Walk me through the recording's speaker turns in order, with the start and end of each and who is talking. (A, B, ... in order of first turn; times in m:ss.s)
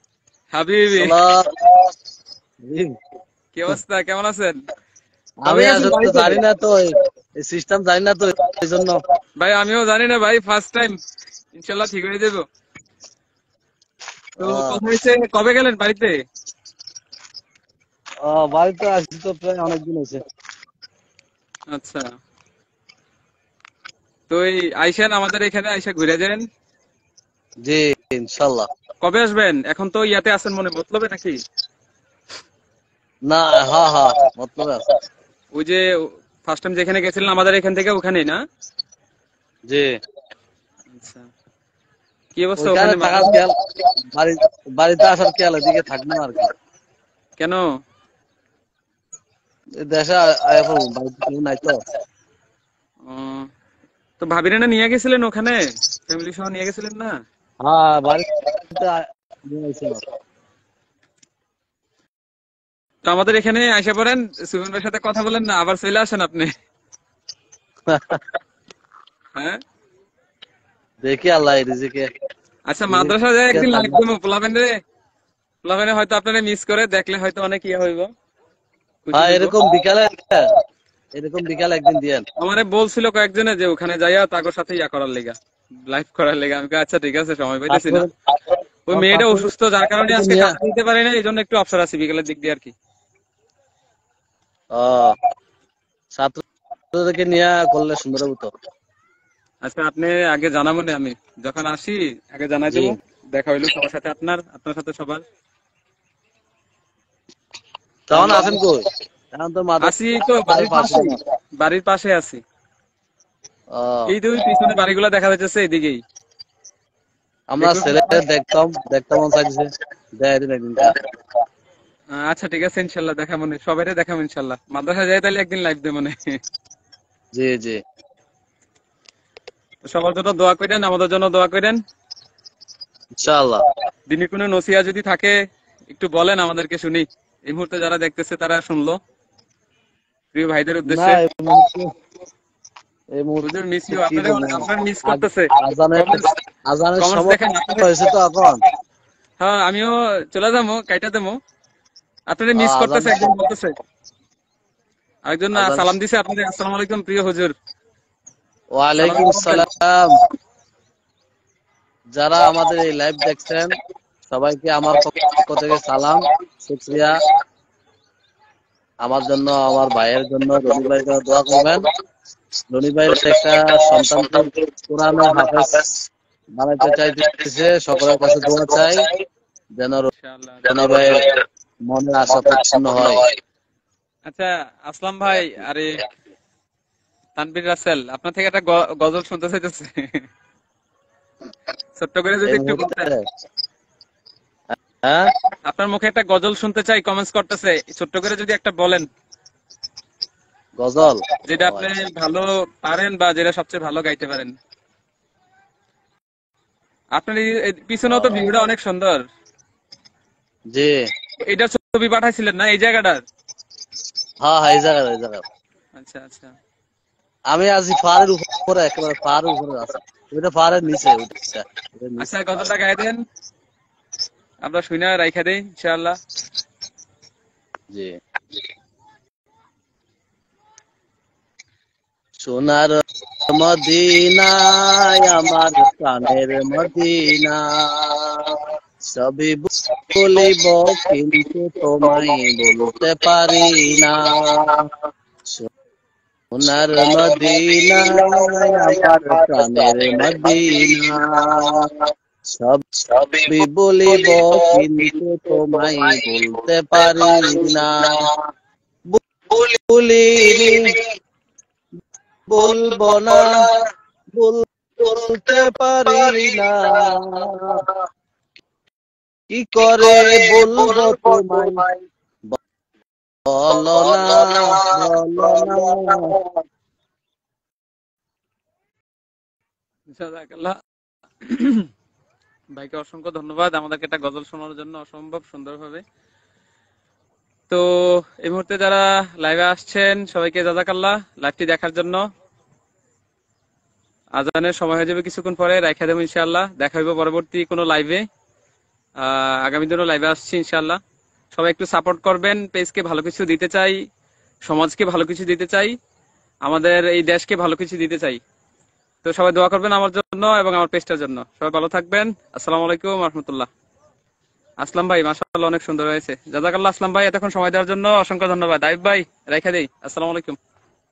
0:00.5-0:01.2 A
0:00.9-0:01.5 B
0:02.7-0:02.9 B
0:03.5-0:04.6 A
0:05.4-0:09.0 B
0:05.4-0:06.4 A
0:09.4-0:11.0 A
0:11.5-0:12.4 A
0:14.4-0:14.8 B
0:14.4-0:16.1 A
0:18.2-0:20.2 B
0:21.7-0:22.0 A
0:24.3-0:26.4 A
0:27.6-0:28.7 B
0:29.0-0:31.4 A
0:33.3-0:34.8 B
0:35.5-0:38.4 A
0:40.9-0:41.3 A
0:42.3-0:43.4 A
0:42.6-0:43.5 B
0:44.1-0:46.5 B
0:47.4-0:47.6 A
0:49.8-0:51.8 B
0:53.0-0:53.5 A
0:54.2-0:57.2 A
0:57.6-1:00.0 B
1:03.0-1:06.5 A
1:07.9-1:08.2 B
1:11.0-1:12.1 B
1:12.7-1:14.7 A
1:12.9-1:14.0 B
1:15.6-1:18.1 A
1:19.0-1:19.6 A
1:19.1-1:20.4 B
1:21.1-1:22.2 B
1:22.4-1:25.3 A
1:25.9-1:28.0 A
1:27.7-1:28.1 B
1:28.9-1:32.7 A
1:28.9-1:30.5 B
1:34.7-1:35.1 B
1:36.9-1:38.5 B
1:39.6-1:45.2 A
1:42.7-1:43.0 B
1:48.1-1:51.2 B
1:48.1-1:48.6 A
1:49.8-1:52.4 A
1:53.7-1:54.1 B
1:54.1-1:56.0 A
1:57.5-2:00.9 B
1:57.6-1:58.2 A
2:02.1-2:06.1 A
2:07.3-2:07.8 B
2:09.8-2:11.8 A
2:13.2-2:13.6 B
2:14.1-2:15.3 A
2:15.9-2:19.0 A
2:20.3-2:21.2 A
2:20.8-2:21.9 B
2:23.1-2:28.6 B
2:23.4-2:26.3 A
2:27.0-2:27.9 A
2:29.4-2:31.4 A
2:32.3-2:33.7 A
2:32.5-2:33.4 B
2:35.3-2:37.5 A
2:35.5-2:35.9 B
2:38.8-2:40.1 B
2:39.0-2:39.6 A
2:42.2-2:43.7 B
2:44.3-2:47.2 B
2:49.0-2:51.8 B
2:52.7-2:55.8 B
2:56.6-2:59.0 B
2:59.8-3:00.1 B
3:00.1-3:00.7 A
3:00.7-3:01.3 B
3:01.9-3:03.2 B
3:04.2-3:06.0 A
3:07.4-3:10.2 A
3:12.0-3:13.1 A
3:12.4-3:13.2 B
3:15.7-3:19.1 A
3:20.8-3:21.9 B
3:21.5-3:24.5 A
3:27.1-3:29.2 A
3:31.4-3:33.2 A
3:34.4-3:35.4 B
3:36.0-3:36.5 A
3:37.5-3:42.3 B
3:42.2-3:43.2 A
3:44.6-3:46.2 A
3:52.4-3:58.5 B
3:59.1-4:04.8 B
4:06.5-4:11.8 B
4:12.5-4:12.8 B
4:13.5-4:18.1 B
4:19.9-4:20.8 B
4:22.5-4:23.5 B
4:24.3-4:24.6 B
4:25.2-4:27.6 B
4:29.5-4:31.8 B
4:33.5-4:36.3 B
4:40.1-4:40.8 A
4:41.4-4:41.9 A
4:42.7-4:46.0 A
4:47.7-4:52.2 A
4:54.4-4:58.2 A
4:59.2-5:01.0 A
5:01.5-5:04.0 A
5:04.6-5:05.9 A
5:06.6-5:08.4 A
5:09.2-5:13.7 A
5:14.8-5:20.6 A